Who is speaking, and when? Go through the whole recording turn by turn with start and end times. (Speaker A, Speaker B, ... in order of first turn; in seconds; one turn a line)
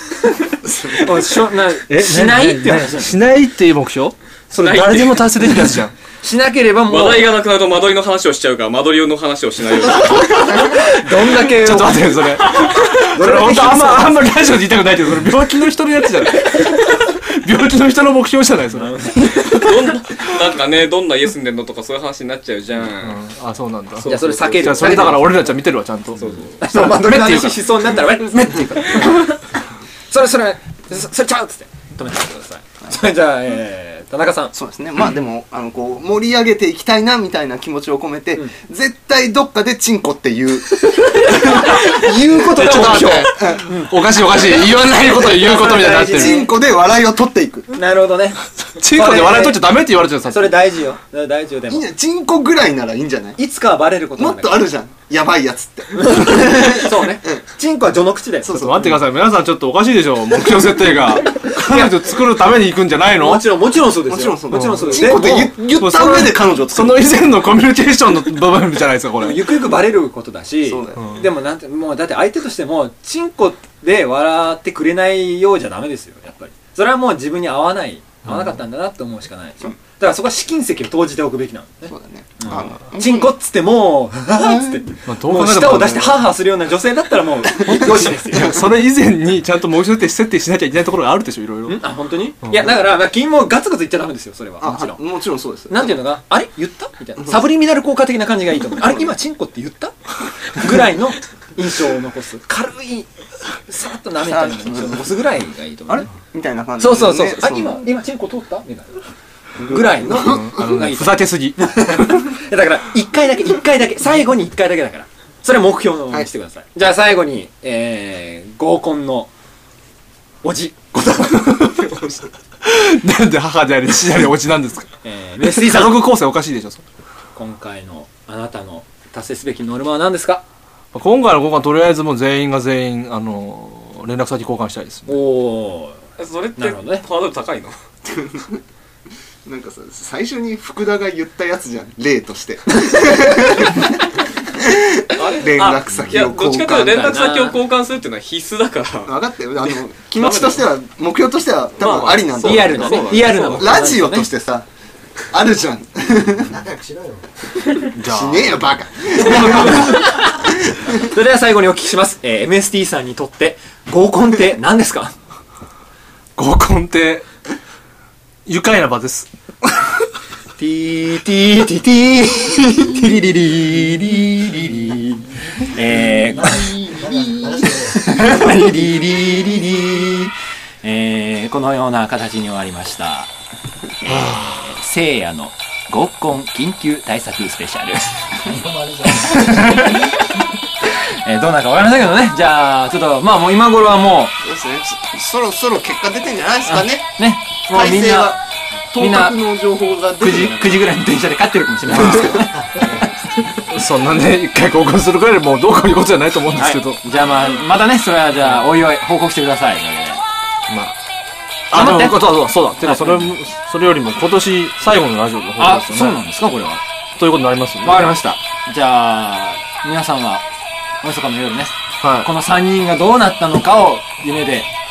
Speaker A: 0.6-1.3
Speaker B: 0.9-3.2
Speaker C: 1.9-5.9
Speaker D: 4.5-5.5
Speaker B: 6.2-7.3
Speaker D: 6.9-10.7
Speaker C: 10.3-19.9
Speaker B: 10.5-12.1
Speaker B: 13.1-14.2
Speaker B: 18.8-19.4
Speaker D: 19.4-23.2
Speaker C: 22.9-28.2
Speaker B: 24.0-25.4
Speaker D: 24.1-25.3
Speaker D: 26.2-26.5
Speaker B: 26.6-29.4
Speaker C: 28.8-29.1
Speaker B: 30.1-34.5
Speaker A: 34.5-42.4
Speaker B: 41.1-46.5
Speaker C: 42.4-46.4
Speaker A: 43.3-43.7
Speaker A: 45.7-47.7
Speaker B: 47.7-49.7
Speaker C: 48.6-50.6
Speaker B: 50.3-51.9
Speaker A: 51.7-53.4
Speaker B: 53.4-54.7
Speaker A: 54.2-57.4
Speaker B: 56.0-59.0
Speaker A: 58.4-58.9
Speaker C: 58.5-63.5
Speaker B: 61.6-61.9
Speaker B: 63.1-65.6
Speaker A: 64.1-67.0
Speaker C: 64.5-69.6
Speaker B: 69.2-88.6
Speaker A: 70.6-71.2
Speaker C: 71.0-71.2
Speaker C: 78.2-78.6
Speaker A: 81.9-83.3
Speaker A: 84.3-84.8
Speaker C: 85.1-86.3
Speaker C: 87.7-91.8
Speaker B: 91.7-95.0
Speaker A: 94.6-96.0
Speaker B: 95.7-103.1
Speaker B: 103.7-106.1
Speaker A: 104.3-105.2
Speaker A: 105.9-107.8
Speaker B: 106.8-119.3
Speaker A: 109.6-110.6
Speaker C: 110.2-112.3
Speaker B: 120.4-121.6
Speaker C: 121.3-121.8
Speaker D: 121.8-122.3
Speaker C: 122.6-124.9
Speaker B: 125.0-126.1
Speaker C: 125.4-126.8
Speaker B: 127.4-130.4
Speaker C: 130.9-135.1
Speaker B: 135.1-136.0
Speaker D: 136.2-137.8
Speaker B: 136.6-137.0
Speaker A: 138.1-138.6
Speaker A: 139.4-147.3
Speaker D: 145.1-149.2
Speaker B: 146.8-147.6
Speaker A: 149.1-154.7
Speaker D: 149.7-150.7
Speaker D: 151.8-153.7
Speaker B: 152.4-154.3
Speaker A: 155.3-156.6
Speaker E: 156.5-157.3
Speaker C: 157.9-160.1
Speaker A: 158.0-160.9
Speaker B: 159.2-165.2
Speaker C: 166.4-167.3
Speaker C: 168.5-169.3
Speaker B: 170.6-183.3
Speaker E: 176.3-178.4
Speaker B: 184.0-194.4
Speaker C: 184.1-184.6
Speaker E: 188.4-189.9
Speaker A: 194.4-197.1
Speaker B: 196.7-198.4
Speaker A: 197.7-198.4
Speaker A: 198.9-200.8
Speaker B: 198.9-199.4
Speaker B: 200.2-203.1
Speaker C: 201.9-202.4
Speaker C: 203.7-207.0
Speaker B: 206.6-210.2
Speaker C: 210.7-210.9
Speaker C: 211.7-216.2
Speaker B: 211.7-213.3
Speaker B: 215.6-216.8
Speaker C: 217.2-218.2
Speaker B: 217.8-220.4
Speaker B: 221.0-224.7
Speaker C: 222.0-222.3